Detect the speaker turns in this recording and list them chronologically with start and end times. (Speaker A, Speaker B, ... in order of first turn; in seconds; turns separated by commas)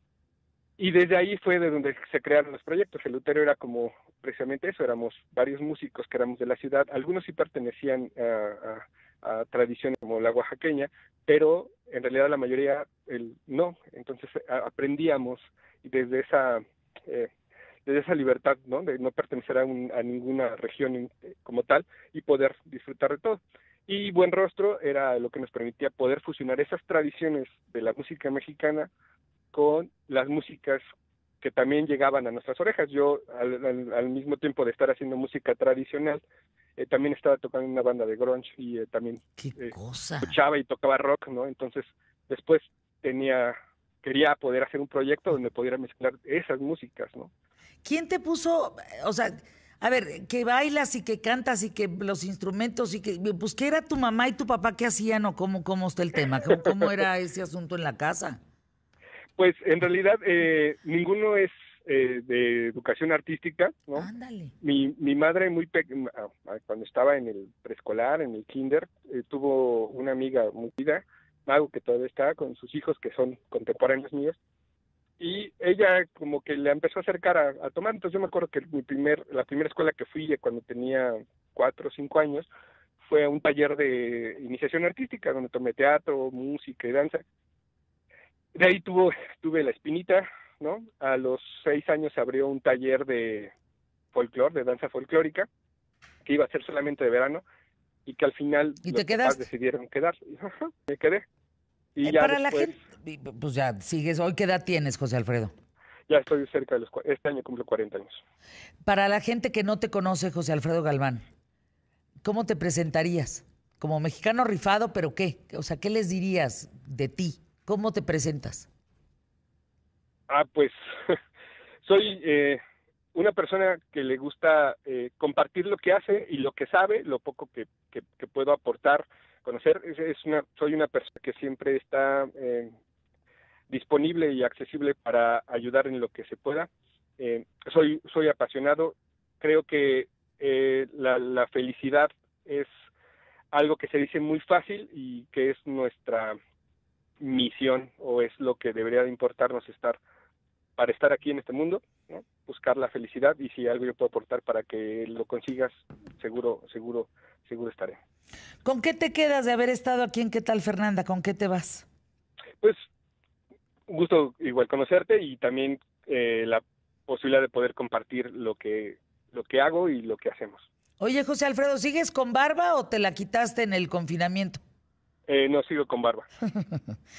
Speaker A: 0.8-17.3, Speaker A: 17.9-28.9, Speaker A: 29.5-30.8, Speaker A: 31.4-36.2, Speaker A: 36.8-47.3, Speaker B: 39.4-40.4, Speaker B: 47.8-58.4, Speaker A: 59.4-64.1, Speaker B: 64.0-64.5, Speaker A: 64.6-74.4, Speaker A: 75.2-82.5, Speaker A: 83.0-87.2, Speaker A: 88.5-93.5, Speaker A: 94.1-95.5, Speaker A: 96.2-97.4, Speaker A: 98.1-101.2, Speaker B: 98.8-99.4, Speaker A: 102.0-102.8, Speaker B: 102.0-105.5, Speaker A: 106.1-108.2, Speaker B: 108.8-111.2, Speaker B: 112.2-118.7, Speaker A: 120.3-121.2, Speaker A: 121.8-122.6, Speaker A: 123.1-132.7, Speaker A: 133.7-142.7, Speaker A: 143.5-146.4, Speaker A: 147.2-150.0, Speaker A: 150.8-158.0, Speaker B: 158.7-161.9, Speaker A: 163.9-170.7, Speaker B: 171.0-174.6, Speaker A: 175.3-176.3, Speaker B: 176.5-176.9